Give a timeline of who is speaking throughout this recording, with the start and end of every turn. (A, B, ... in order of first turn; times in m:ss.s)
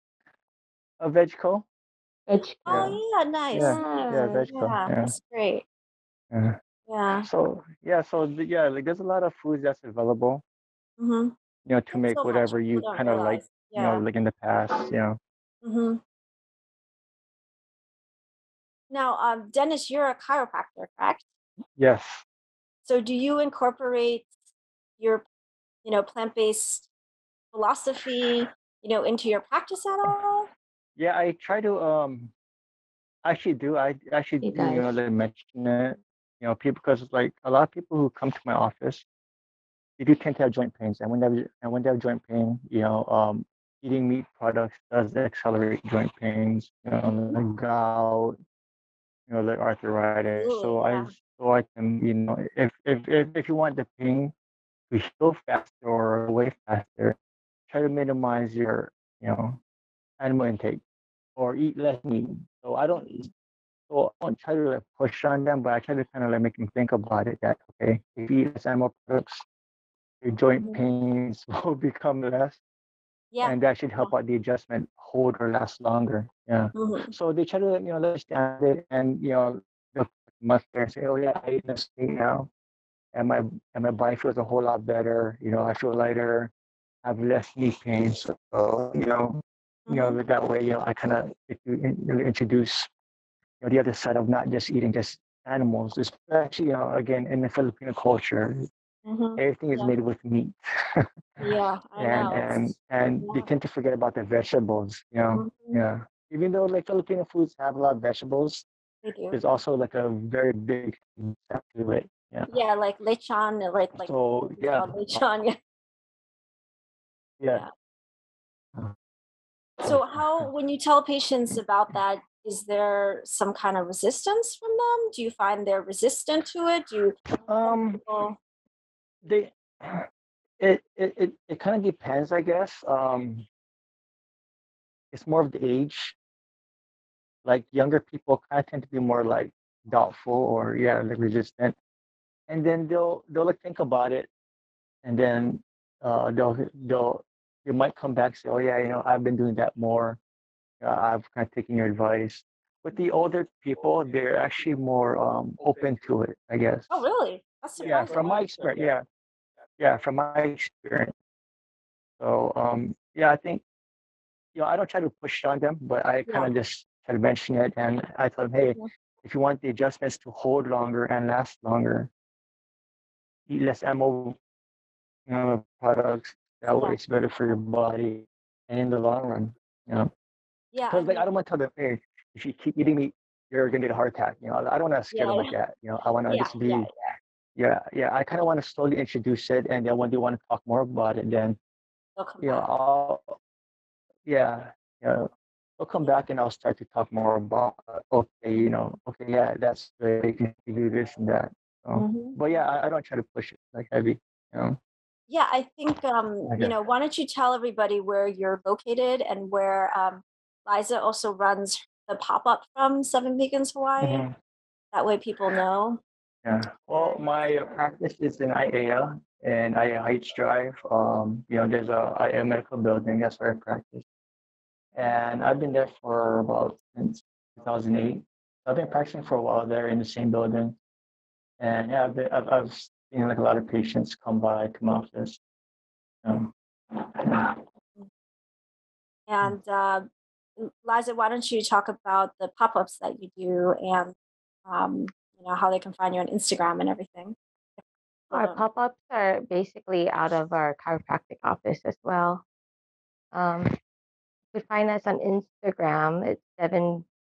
0:01.0-0:01.7 A
0:02.3-0:03.0 B
0:02.7-0:05.6 C
0:02.7-0:03.0 A
0:03.5-0:05.1 A
0:03.6-0:04.5 B
0:06.3-0:06.6 A
0:06.9-0:07.3 C
0:07.2-0:10.4 A
0:11.0-0:11.4 C
0:11.7-0:15.2 A
0:11.9-0:14.0 C
0:15.6-0:16.0 C
0:18.9-0:21.2 C
0:21.8-0:22.2 A
0:22.8-0:24.3 C
0:25.0-0:25.2 C
0:25.8-0:26.9 C
0:27.5-0:30.5 C
0:31.0-0:32.3 A
0:33.2-0:39.1 A
0:34.4-0:34.9 B
0:40.0-0:48.4 A
0:49.3-0:54.3 A
0:50.4-0:51.1 C
0:54.9-0:57.2 A
0:57.7-0:59.6 A
1:00.2-1:00.8 A
1:01.4-1:03.3 A
1:03.9-1:09.5 A
1:10.2-1:12.6 A
1:13.3-1:14.1 C
1:13.4-1:22.5 A
1:16.8-1:17.1 C
1:23.1-1:26.5 A
1:27.0-1:32.9 A
1:29.9-1:30.2 C
1:33.6-1:38.7 A
1:39.0-1:39.9 C
1:39.4-1:41.0 A
1:41.4-1:43.5 C
1:42.0-1:48.7 A
1:45.3-1:45.8 C
1:49.0-1:49.4 C
1:49.3-1:52.5 A
1:52.5-1:55.6 C
1:54.0-1:55.2 A
1:57.4-1:57.6 A
1:59.8-2:08.4 C
1:59.8-2:00.5 A
2:07.5-2:08.0 A
2:09.2-2:10.1 A
2:10.6-2:13.5 A
2:15.1-2:16.2 A
2:17.4-2:21.8 A
2:22.5-2:24.3 A
2:25.0-2:30.2 A
2:30.8-2:37.0 A
2:36.9-2:38.4 C
2:37.8-2:39.0 A
2:39.8-2:41.1 A
2:42.2-2:43.6 A
2:44.5-2:52.1 A
2:46.3-2:46.5 C
2:53.5-2:54.4 A
2:55.3-3:00.1 A
3:00.7-3:01.3 C
3:00.9-3:06.9 A
3:05.1-3:05.5 C
3:06.3-3:06.9 C
3:07.6-3:11.6 A
3:12.2-3:12.7 C
3:12.4-3:13.4 A
3:14.3-3:24.8 A
3:21.9-3:22.4 C
3:25.3-3:34.2 C
3:26.5-3:26.7 A
3:34.0-3:34.4 A
3:34.9-3:36.0 C
3:36.4-3:44.0 A
3:44.9-3:50.8 A
3:51.6-3:55.4 A
3:56.2-3:57.6 A
3:59.3-4:04.2 C
4:04.7-4:08.6 C
4:08.3-4:12.4 B
4:13.3-4:13.7 B
4:14.5-4:17.1 B